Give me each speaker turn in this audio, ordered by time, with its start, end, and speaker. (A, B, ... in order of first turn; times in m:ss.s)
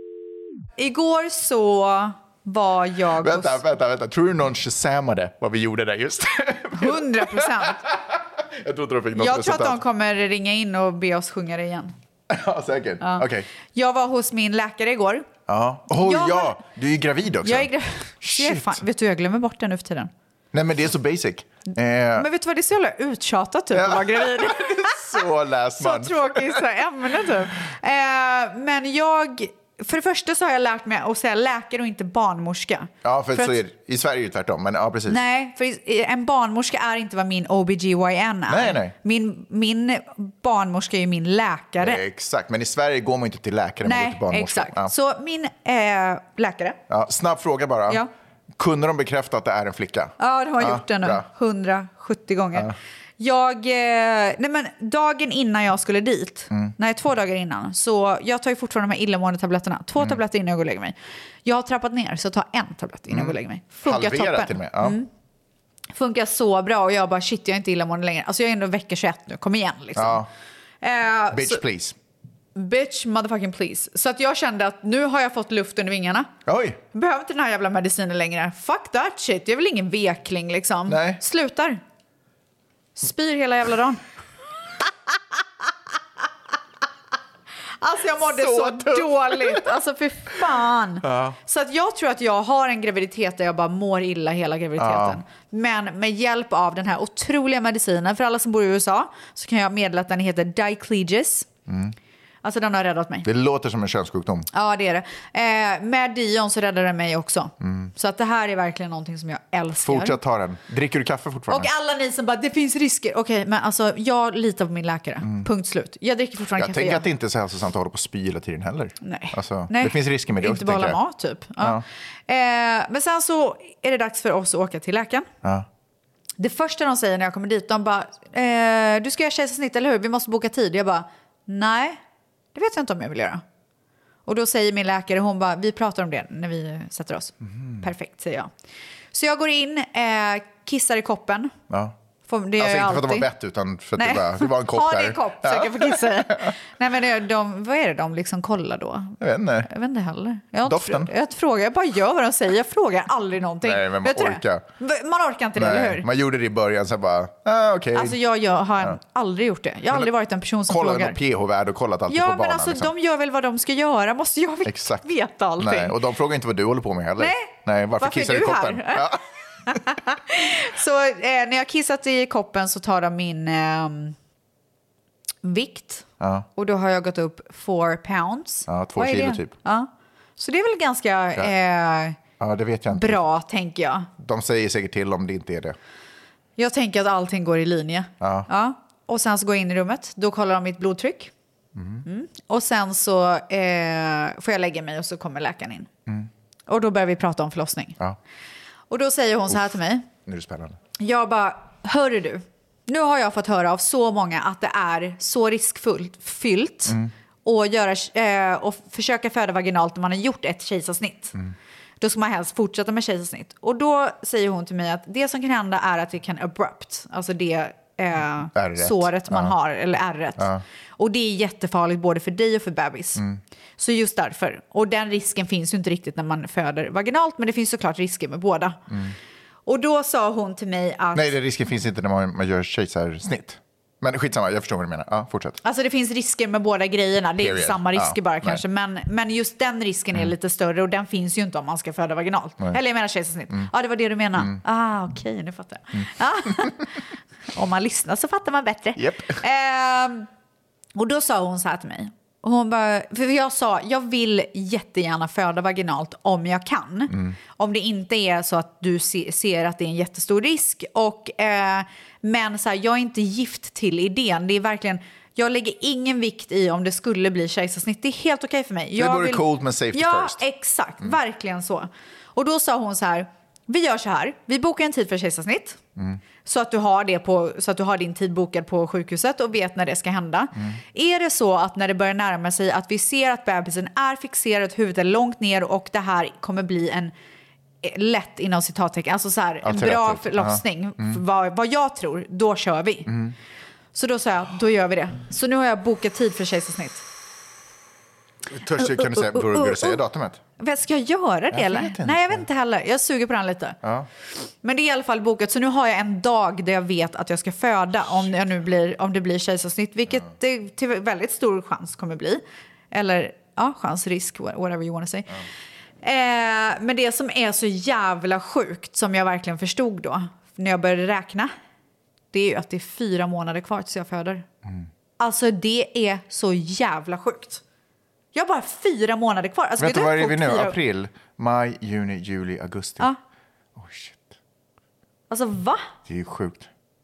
0:00.8-0:03.6 A
0:03.1-0:09.8 B
0:06.8-0:07.8 A
0:09.1-0:11.9 A
0:12.3-0:13.5 B
0:13.0-0:15.3 A
0:15.5-0:17.7 B
0:15.9-0:16.6 A
0:17.4-0:20.1 A
0:18.2-0:18.8 B
0:20.5-0:22.3 B
0:22.2-0:25.3 A
0:23.7-0:26.6 B
0:25.8-0:33.6 A
0:33.0-0:35.2 B
0:35.1-0:42.0 A
0:38.5-0:38.9 B
0:41.8-0:44.9 B
0:43.8-0:46.8 A
0:46.9-0:48.0 B
0:48.6-0:51.3 B
0:50.2-1:05.1 A
1:03.1-1:05.0 B
1:05.9-1:10.2 A
1:10.0-1:10.3 B
1:10.8-1:11.6 A
1:11.3-1:12.0 B
1:12.6-1:16.3 A
1:16.4-1:16.8 B
1:16.9-1:21.8 A
1:20.9-1:21.2 B
1:23.0-1:24.0 A
1:27.8-1:41.5 A
1:28.2-1:29.7 B
1:31.0-1:31.4 B
1:34.8-1:35.2 B
1:41.7-1:42.0 B
1:42.4-1:43.3 A
1:43.2-1:44.5 B
1:44.5-1:50.2 A
1:47.6-1:47.9 B
1:49.8-1:51.7 B
1:51.5-1:57.1 A
1:55.2-1:55.5 B
1:56.6-2:01.0 B
1:59.0-2:05.3 A
2:06.4-2:12.0 A
2:12.5-2:13.4 A
2:14.3-2:18.5 A
2:17.4-2:17.9 B
2:19.1-2:21.5 A
2:21.7-2:22.0 B
2:22.3-2:23.3 A
2:22.6-2:26.5 B
2:24.0-2:36.1 A
2:29.2-2:29.7 B
2:30.6-2:31.1 B
2:33.6-2:34.7 B
2:35.6-2:38.2 B
2:37.9-2:41.2 A
2:40.7-2:42.9 B
2:42.1-2:46.0 A
2:44.6-2:49.2 B
2:47.2-2:49.2 A
2:49.7-2:54.2 A
2:55.4-3:02.2 A
2:56.2-2:56.4 B
2:58.7-2:59.5 B
3:02.4-3:03.2 B
3:02.9-3:04.1 A
3:04.2-3:05.8 B
3:06.6-3:11.3 A
3:08.2-3:08.5 B
3:11.8-3:12.0 B
3:12.0-3:15.9 A
3:16.7-3:18.0 A
3:18.9-3:20.1 A
3:20.3-3:20.8 B
3:21.0-3:31.4 A
3:26.9-3:27.1 B
3:32.0-3:43.2 A
3:38.6-3:39.6 B
3:40.4-3:40.6 B
3:43.8-3:48.8 A
3:48.9-3:49.1 B
3:49.7-3:51.4 A
3:51.1-3:55.6 B
3:55.6-4:06.9 A
3:57.4-3:58.6 B
4:07.5-4:10.3 A
4:09.0-4:09.4 B
4:11.0-4:35.8 A
4:29.0-4:30.4 B
4:36.4-4:47.1 A
4:47.8-4:53.2 A
4:49.6-4:51.2 B
4:53.1-4:53.4 B
4:53.9-4:57.0 A
4:58.5-5:00.4 B
4:58.7-5:00.0 A
5:00.6-5:03.8 A
5:01.5-5:02.4 B
5:03.8-5:04.1 B
5:04.6-5:15.4 A
5:16.0-5:21.5 A
5:22.3-5:24.4 A
5:25.2-5:27.6 A
5:28.3-5:30.8 A
5:29.8-5:33.1 B
5:33.8-5:34.3 B
5:35.3-5:35.9 A
5:36.1-5:36.7 B